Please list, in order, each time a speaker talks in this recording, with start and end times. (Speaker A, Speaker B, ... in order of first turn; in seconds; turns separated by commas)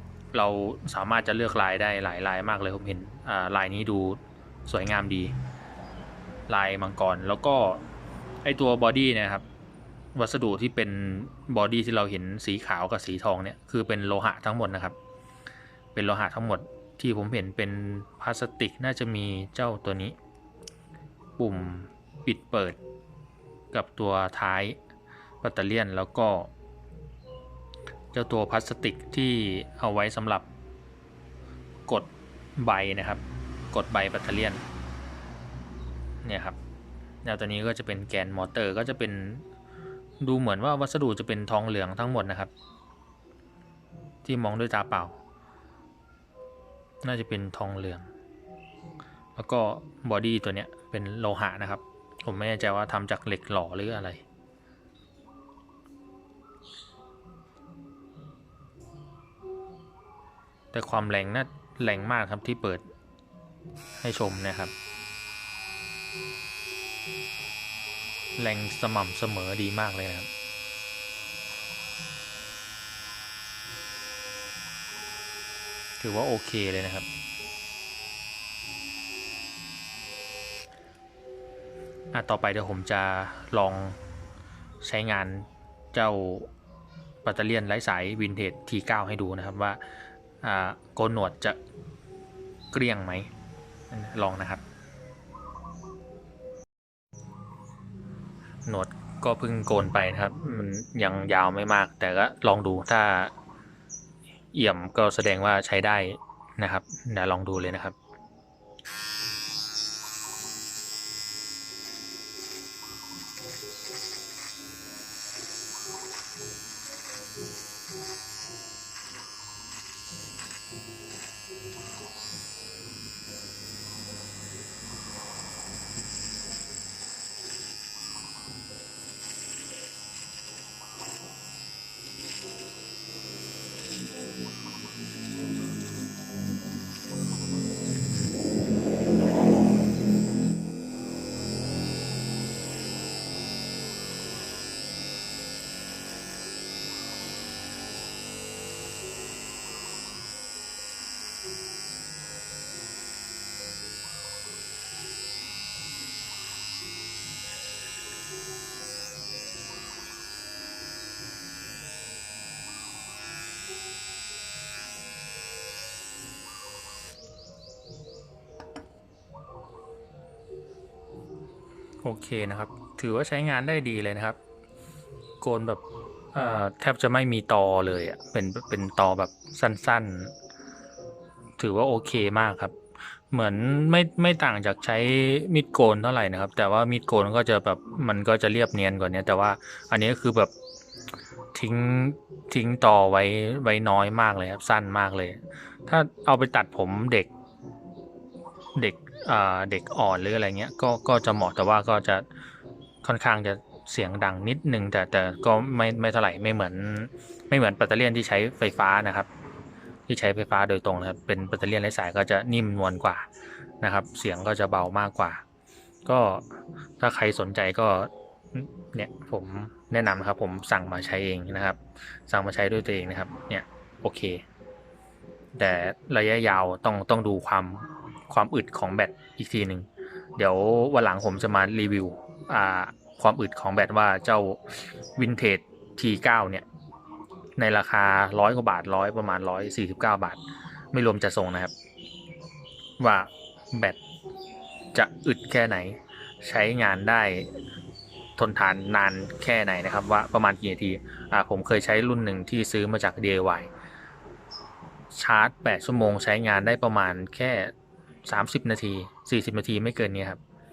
Speaker A: 0.3-5.3, Speaker A: 6.5-7.8, Speaker A: 8.4-9.4, Speaker A: 10.1-14.9, Speaker A: 15.9-20.1, Speaker A: 21.4-22.8, Speaker A: 23.7-24.8, Speaker A: 25.4-26.5, Speaker A: 28.1-30.5, Speaker A: 31.9-34.6, Speaker A: 36.2-36.6, Speaker A: 37.2-39.4, Speaker A: 40.2-42.5, Speaker A: 44.2-45.2, Speaker A: 47.0-48.1, Speaker A: 49.4-54.2, Speaker A: 60.7-62.8, Speaker A: 64.0-64.7, Speaker A: 68.3-70.3, Speaker A: 76.0-77.1, Speaker A: 82.1-84.0, Speaker A: 84.8-86.5, Speaker A: 87.2-89.8, Speaker A: 90.4-91.6, Speaker A: 92.7-93.3, Speaker A: 93.9-94.6, Speaker A: 98.6-103.3, Speaker A: 104.5-108.0, Speaker A: 172.0-174.4, Speaker A: 175.4-175.8, Speaker A: 176.3-180.3, Speaker A: 181.6-182.8, Speaker A: 183.3-190.5, Speaker A: 191.5-197.3, Speaker A: 198.7-202.2, Speaker A: 203.0-209.3, Speaker A: 210.1-213.3, Speaker A: 213.8-215.4, Speaker A: 216.0-224.4, Speaker A: 225.5-236.7, Speaker A: 237.6-240.4, Speaker A: 240.9-241.7, Speaker A: 243.0-244.0, Speaker A: 244.9-247.6, Speaker A: 248.4-253.7, Speaker A: 255.1-257.7, Speaker A: 258.2-260.4